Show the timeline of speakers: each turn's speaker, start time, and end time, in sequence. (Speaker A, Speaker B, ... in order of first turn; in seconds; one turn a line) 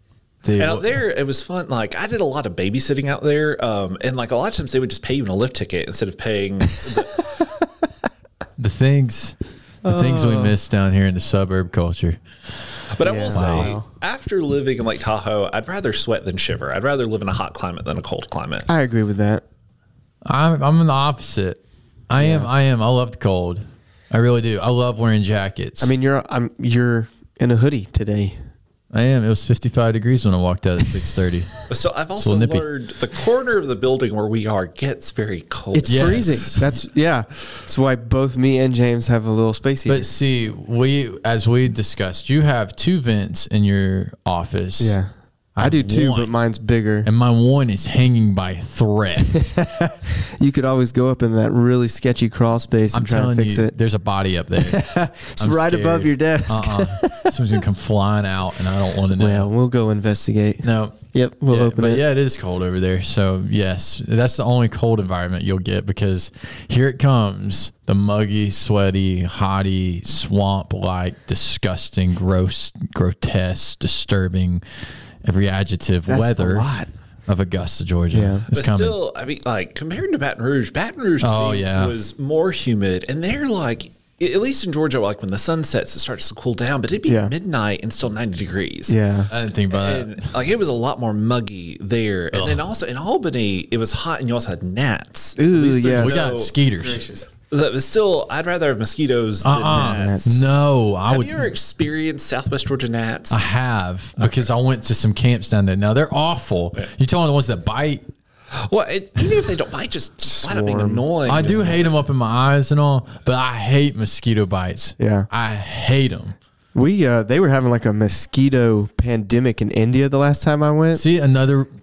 Speaker A: 0.4-0.9
Speaker B: 0.6-7.3
Speaker C: 6.8-7.9
Speaker A: 8.6-13.7
Speaker C: 9.8-10.6
Speaker B: 12.9-18.7
Speaker C: 13.0-13.8
Speaker C: 18.7-19.4
Speaker A: 20.2-25.9
Speaker C: 22.2-22.5
Speaker C: 25.8-28.5
Speaker A: 28.9-31.6
Speaker B: 31.7-36.6
Speaker A: 32.2-32.6
Speaker C: 35.7-40.1
Speaker A: 35.9-36.8
Speaker A: 39.9-45.0
Speaker C: 44.8-47.1
Speaker A: 45.5-46.3
Speaker A: 47.0-49.4
Speaker C: 49.5-53.7
Speaker A: 52.9-54.9
Speaker C: 54.6-57.4
Speaker A: 55.4-59.5
Speaker C: 59.2-62.0
Speaker A: 60.6-76.7
Speaker C: 76.1-76.9
Speaker A: 77.3-79.0
Speaker C: 78.1-78.5
Speaker B: 78.5-89.0
Speaker A: 81.2-81.9
Speaker C: 87.1-87.3
Speaker C: 88.9-89.3
Speaker A: 89.3-90.3
Speaker B: 89.7-96.5
Speaker A: 92.3-92.6
Speaker C: 95.4-97.3
Speaker A: 95.9-97.0
Speaker B: 97.5-100.4
Speaker A: 99.4-101.5
Speaker C: 99.7-100.4
Speaker B: 101.1-103.4
Speaker A: 103.3-108.0
Speaker B: 104.2-104.5
Speaker B: 108.6-112.0
Speaker C: 110.3-111.7
Speaker A: 111.3-116.4
Speaker C: 115.0-115.3
Speaker C: 116.8-121.0
Speaker A: 121.0-121.7